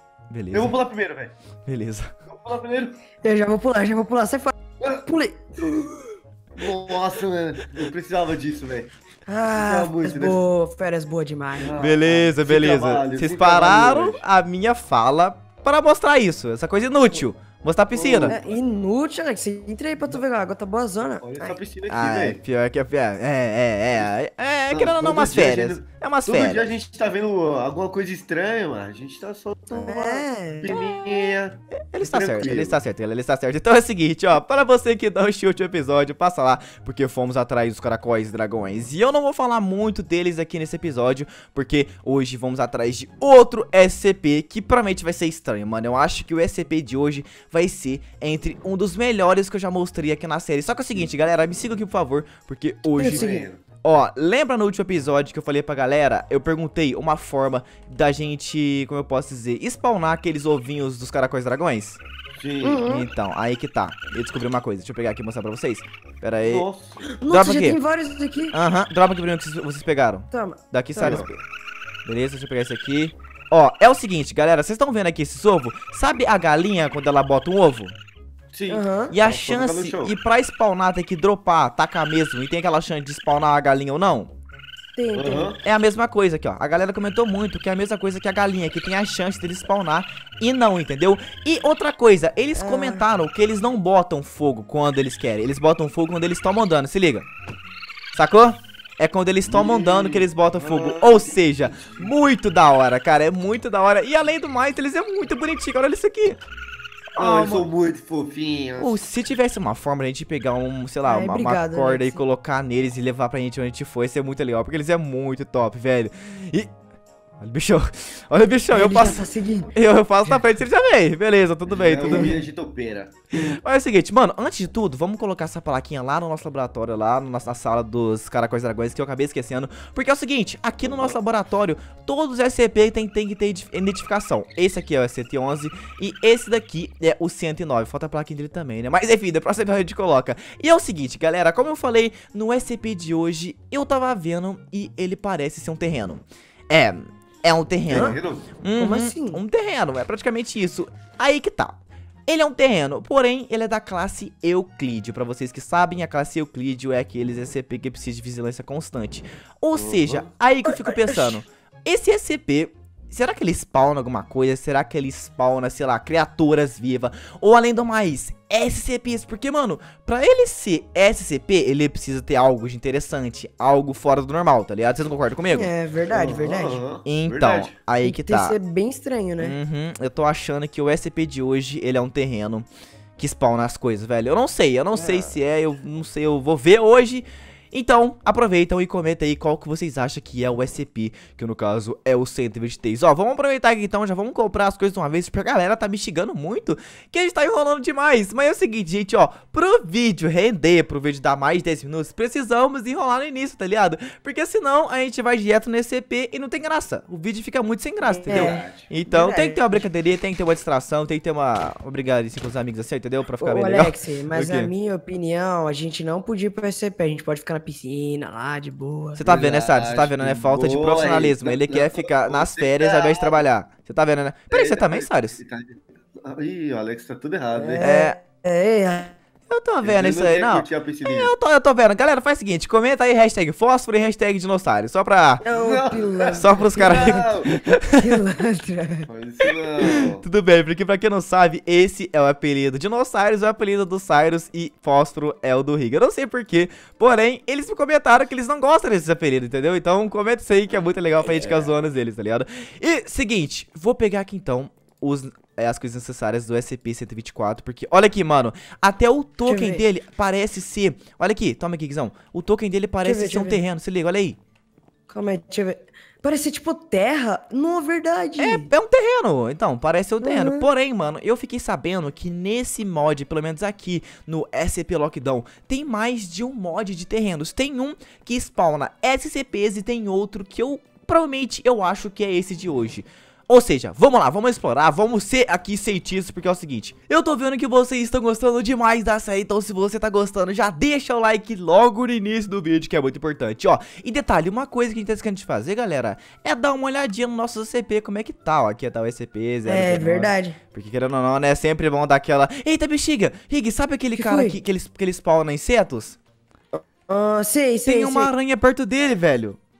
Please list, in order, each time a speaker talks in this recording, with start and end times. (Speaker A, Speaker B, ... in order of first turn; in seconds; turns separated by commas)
Speaker A: 0.3-0.8, Speaker B: 0.5-1.3, Speaker A: 1.6-2.1, Speaker B: 2.3-3.0, Speaker C: 3.2-5.8, Speaker B: 6.5-8.9, Speaker C: 9.3-12.0, Speaker B: 9.5-10.4, Speaker B: 11.6-14.2, Speaker A: 11.8-18.4, Speaker B: 17.9-18.6, Speaker C: 18.3-21.6, Speaker B: 21.2-22.4, Speaker A: 21.9-26.7, Speaker B: 24.7-32.8, Speaker C: 29.7-30.7, Speaker A: 30.7-31.3, Speaker A: 31.9-53.2, Speaker C: 53.0-53.4, Speaker B: 53.0-53.6, Speaker A: 53.8-62.0, Speaker B: 62.4-62.9, Speaker C: 62.6-63.1, Speaker A: 62.9-66.7, Speaker B: 66.4-67.1, Speaker C: 67.0-68.5, Speaker A: 67.3-67.8, Speaker A: 68.5-71.4, Speaker C: 70.3-71.2, Speaker B: 71.0-71.3, Speaker A: 72.0-77.9, Speaker B: 78.5-80.2, Speaker C: 78.7-79.1, Speaker A: 79.1-84.3, Speaker C: 85.0-85.5, Speaker B: 85.1-85.6, Speaker A: 85.6-97.3, Speaker C: 92.5-93.1, Speaker A: 98.1-106.4, Speaker B: 99.5-102.1, Speaker A: 107.1-107.6, Speaker B: 107.2-109.0, Speaker A: 108.8-116.7, Speaker C: 111.0-112.2, Speaker A: 117.4-122.4, Speaker C: 118.7-119.8, Speaker B: 121.7-123.3, Speaker A: 123.4-175.7, Speaker B: 130.8-131.2, Speaker B: 147.9-148.5, Speaker C: 147.9-148.2, Speaker C: 148.8-149.4, Speaker B: 159.7-160.3, Speaker C: 160.7-161.4, Speaker C: 175.5-176.8, Speaker B: 176.1-177.8, Speaker A: 177.0-178.6, Speaker C: 178.0-179.6, Speaker A: 179.4-182.7, Speaker A: 183.2-214.7, Speaker C: 184.9-185.3, Speaker C: 208.2-209.8, Speaker B: 208.3-208.9, Speaker C: 213.4-219.2, Speaker A: 219.2-225.4, Speaker B: 219.2-223.4, Speaker B: 224.5-228.0, Speaker C: 227.6-229.2, Speaker A: 227.8-228.2, Speaker A: 229.5-235.4, Speaker B: 229.8-231.3, Speaker C: 235.4-237.2, Speaker B: 235.5-237.6, Speaker A: 236.3-238.2, Speaker C: 237.9-239.1, Speaker B: 239.1-240.2, Speaker A: 239.8-264.4, Speaker B: 251.3-251.7, Speaker C: 259.4-259.9, Speaker C: 263.0-263.6, Speaker C: 265.1-268.7, Speaker A: 268.4-306.2, Speaker C: 270.2-270.7, Speaker C: 299.6-300.6, Speaker C: 304.1-304.6, Speaker C: 306.7-308.3, Speaker A: 307.9-309.6